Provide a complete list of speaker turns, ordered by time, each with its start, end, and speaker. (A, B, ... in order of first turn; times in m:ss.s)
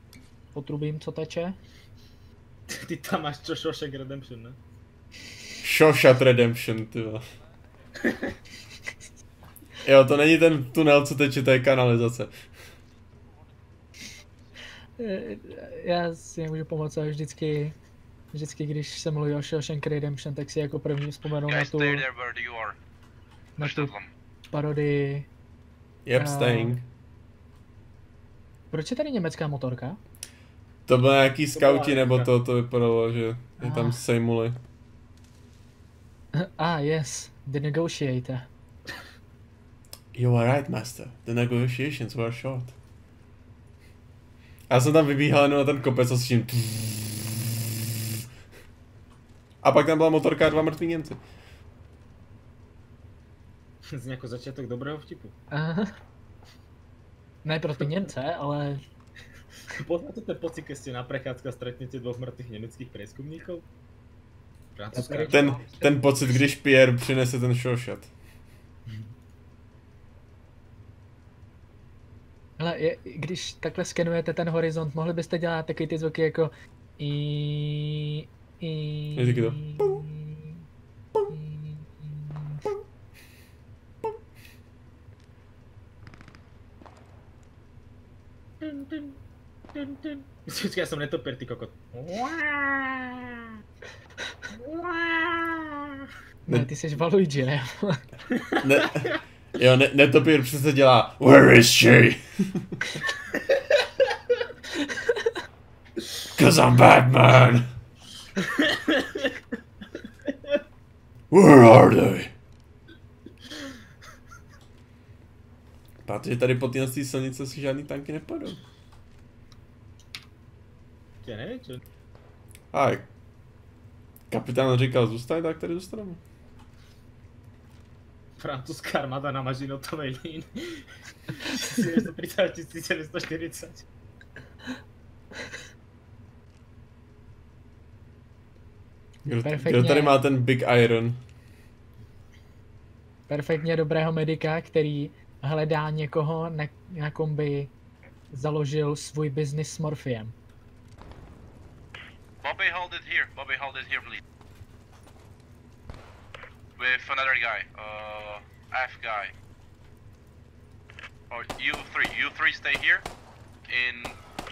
0:00.5-0:01.6 A
0:02.7-0:04.6 B
0:05.6-0:07.2 C
0:09.8-0:12.3 C
0:15.0-0:17.8 A
0:18.3-0:22.0 A
0:21.5-0:22.8 D
0:23.6-0:23.9 A
0:23.6-0:24.1 D
0:24.5-0:25.3 A
0:26.0-0:26.9 C
0:26.2-0:26.8 A
0:28.7-0:30.0 A
0:30.9-0:34.6 C
0:31.6-0:32.3 B
0:33.6-0:34.0 A
0:36.4-0:38.5 A
0:40.1-0:42.8 C
0:44.7-0:47.4 C
0:49.6-0:51.2 C
0:53.9-0:55.3 B
0:55.5-0:56.0 A
0:57.4-0:58.8 A
0:59.7-1:03.6 B
1:04.8-1:05.6 B
1:04.9-1:06.4 A
1:05.3-1:08.1 C
1:08.9-1:09.1 B
1:12.6-1:20.5 A
1:19.1-1:20.0 C
1:21.3-1:22.7 A
1:28.6-1:29.2 B
1:29.7-1:33.3 B
1:34.5-1:36.0 B
1:36.5-1:38.0 A
1:38.6-1:42.8 C
1:44.8-1:45.3 A
1:46.4-1:47.7 C
1:48.4-1:49.2 B
1:51.3-1:52.3 C
1:56.0-1:58.6 C
2:01.2-2:01.8 B
2:02.7-2:03.1 C
2:04.3-2:06.2 C
2:08.4-2:13.8 B
2:19.2-2:21.2 C
2:19.4-2:20.2 A
2:23.3-2:27.7 A
2:28.3-2:30.4 A
2:32.4-2:34.2 D
2:36.8-2:39.3 D
2:41.3-2:43.0 D
2:43.7-2:44.2 D